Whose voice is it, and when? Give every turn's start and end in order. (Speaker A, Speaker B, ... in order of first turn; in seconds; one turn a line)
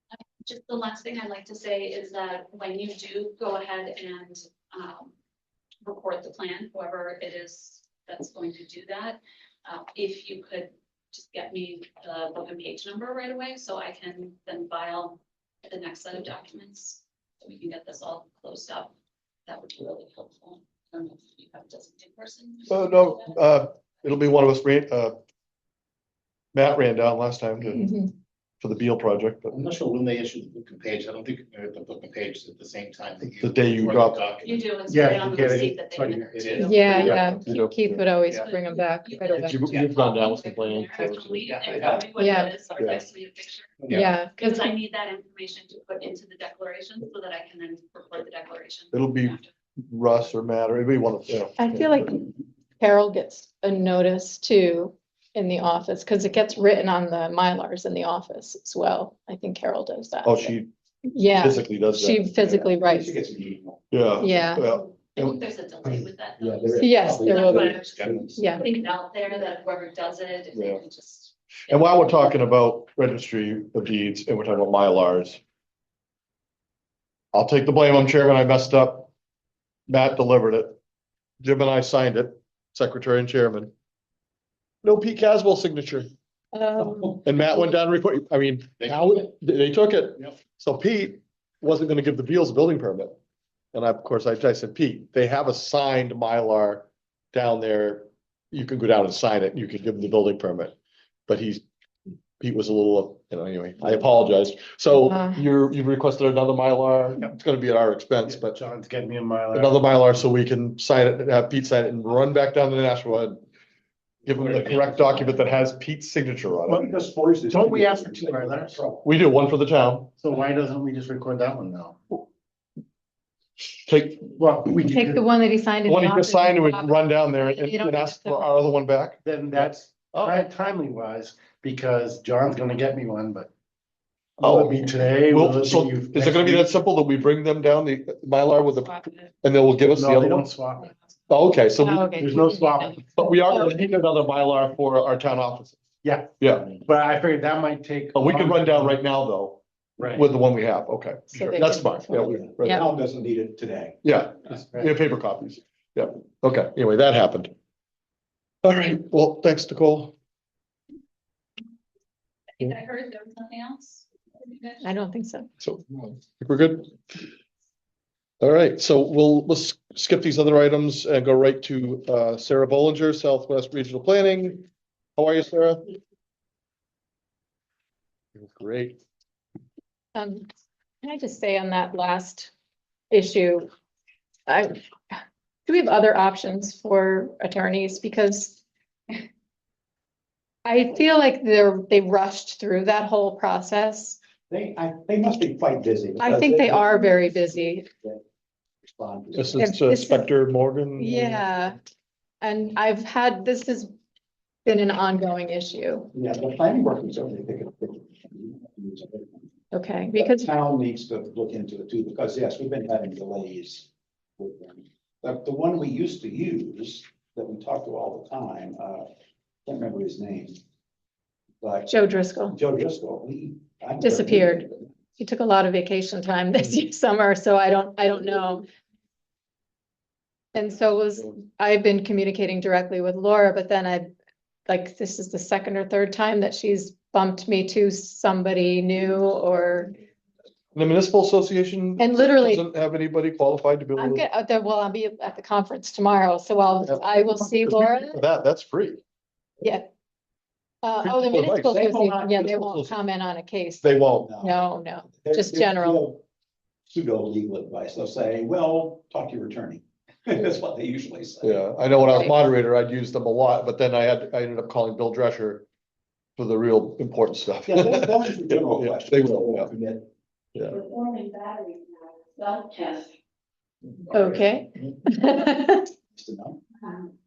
Speaker A: 0.4-5.1
Speaker A: 5.8-18.9
Speaker A: 19.5-23.3
Speaker B: 22.7-25.1
Speaker B: 26.5-27.9
Speaker C: 27.6-28.1
Speaker B: 28.6-29.6
Speaker D: 29.5-35.4
Speaker B: 33.3-34.2
Speaker A: 34.4-37.0
Speaker E: 34.9-37.5
Speaker D: 36.3-37.0
Speaker C: 36.6-39.6
Speaker B: 36.9-38.0
Speaker A: 38.3-49.5
Speaker B: 39.4-41.6
Speaker D: 39.6-39.9
Speaker D: 41.4-42.0
Speaker C: 42.2-42.5
Speaker C: 43.9-44.7
Speaker B: 48.9-49.4
Speaker B: 49.9-52.0
Speaker C: 51.6-60.5
Speaker B: 60.2-60.7
Speaker C: 61.1-63.1
Speaker B: 61.3-62.7
Speaker F: 62.7-63.9
Speaker B: 63.9-65.4
Speaker C: 64.2-64.7
Speaker A: 64.5-71.9
Speaker F: 66.4-68.4
Speaker C: 66.8-67.8
Speaker C: 68.3-68.7
Speaker B: 70.5-70.8
Speaker B: 71.7-75.4
Speaker B: 77.3-79.1
Speaker B: 79.9-80.7
Speaker B: 81.4-83.7
Speaker B: 84.8-86.1
Speaker C: 86.5-87.7
Speaker B: 87.2-93.2
Speaker D: 88.8-89.0
Speaker B: 93.7-100.8
Speaker B: 101.3-101.6
Speaker B: 102.4-108.5
Speaker C: 104.9-105.4
Speaker E: 108.2-109.8
Speaker B: 109.5-113.4
Speaker B: 114.2-116.8
Speaker D: 114.7-115.4
Speaker F: 116.7-119.1
Speaker E: 117.5-118.8
Speaker B: 119.0-120.1
Speaker E: 120.2-122.0
Speaker B: 123.8-124.3
Speaker E: 124.3-125.3
Speaker C: 124.8-128.5
Speaker B: 125.8-130.4
Speaker E: 129.2-133.5
Speaker E: 134.4-136.7
Speaker B: 134.4-140.5
Speaker E: 139.8-140.9
Speaker B: 141.3-142.1
Speaker C: 141.8-143.7
Speaker E: 142.2-143.1
Speaker B: 143.2-145.8
Speaker E: 146.0-149.0
Speaker B: 146.4-146.7
Speaker B: 148.1-152.8
Speaker E: 150.0-150.2
Speaker C: 151.3-152.8
Speaker F: 152.2-154.0
Speaker B: 154.0-157.5
Speaker E: 154.4-154.9
Speaker B: 158.6-160.1
Speaker A: 162.6-164.8
Speaker C: 164.8-165.5
Speaker B: 165.6-167.2
Speaker B: 168.4-175.8
Speaker B: 178.3-179.0
Speaker C: 180.1-180.5
Speaker C: 181.0-182.5
Speaker C: 183.1-183.7
Speaker C: 184.5-188.6
Speaker C: 190.6-194.2
Speaker F: 194.5-197.2
Speaker C: 196.2-197.9
Speaker F: 197.9-198.2
Speaker F: 198.8-199.6
Speaker B: 199.3-201.4
Speaker C: 199.5-200.3
Speaker C: 201.0-201.8
Speaker C: 202.4-203.9
Speaker C: 204.6-206.1
Speaker F: 206.1-209.5
Speaker C: 209.7-210.5
Speaker F: 210.1-219.1
Speaker F: 219.6-220.6
Speaker F: 221.6-221.9
Speaker C: 221.9-222.6
Speaker F: 222.5-224.9
Speaker C: 224.0-228.6
Speaker C: 230.5-234.1
Speaker C: 234.7-239.9
Speaker B: 240.8-244.2
Speaker C: 242.0-242.7
Speaker C: 243.9-248.2
Speaker B: 246.9-249.0
Speaker C: 249.6-249.9
Speaker C: 250.8-256.0
Speaker B: 251.0-251.8
Speaker F: 251.7-252.4
Speaker B: 252.3-252.9
Speaker B: 253.8-254.3
Speaker F: 254.2-254.6
Speaker F: 255.2-256.2
Speaker F: 256.9-261.6
Speaker B: 261.4-265.6
Speaker C: 262.1-262.3
Speaker B: 266.4-269.7
Speaker F: 267.6-270.1
Speaker C: 270.7-273.1
Speaker C: 274.1-275.9
Speaker F: 276.1-276.6